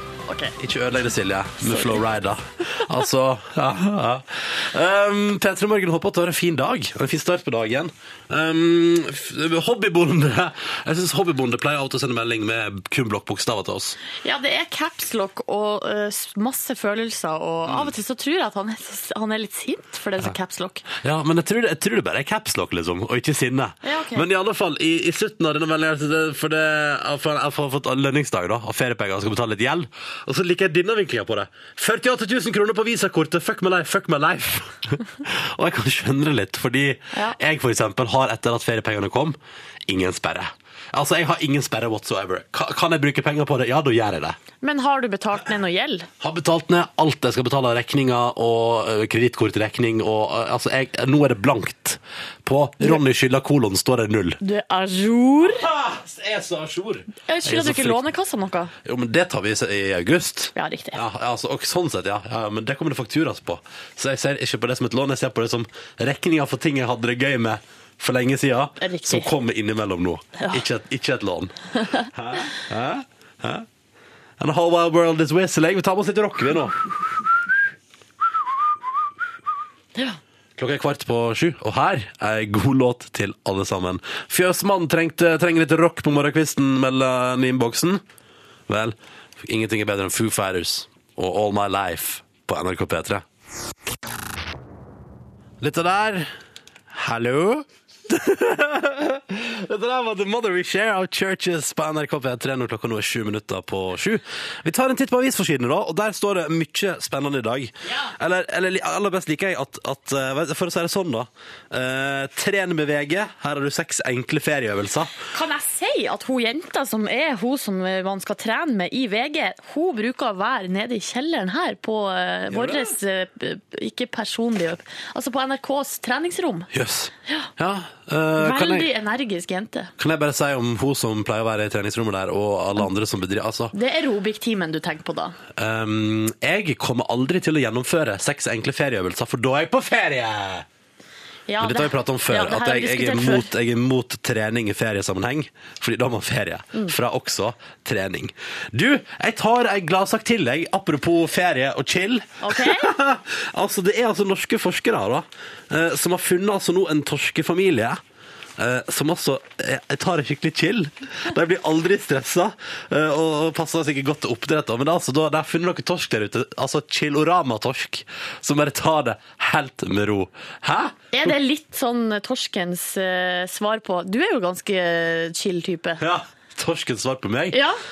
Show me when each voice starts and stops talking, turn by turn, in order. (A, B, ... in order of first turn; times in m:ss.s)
0:00.3-0:00.5 A
0:00.6-0:14.0 B
0:01.6-0:02.0 A
0:14.2-0:20.8 A
0:17.6-0:17.9 B
0:21.0-0:44.4 B
0:23.8-0:24.3 A
0:37.1-0:37.4 A
0:44.6-0:46.1 A
0:46.2-0:54.4 B
0:54.4-0:55.6 A
0:55.4-0:58.1 B
0:57.2-0:58.7 A
0:58.8-1:11.5 B
1:00.6-1:01.0 A
1:08.8-1:09.3 A
1:10.4-1:10.6 A
1:12.1-1:13.6 B
1:14.4-1:16.8 B
1:20.6-1:28.0 B
1:28.7-1:33.2 B
1:35.6-1:36.3 B
1:36.9-1:55.1 B
1:47.8-1:48.1 A
1:55.3-2:06.7 A
2:02.5-2:02.9 B
2:06.7-2:08.9 B
2:08.4-2:09.9 A
2:10.0-2:13.7 B
2:13.7-2:15.4 A
2:15.6-2:20.7 B
2:21.5-2:23.5 A
2:21.6-2:38.0 B
2:32.4-2:32.9 A
2:38.6-2:51.3 B
2:51.1-2:56.0 A
2:56.0-2:57.6 B
2:57.5-2:57.8 A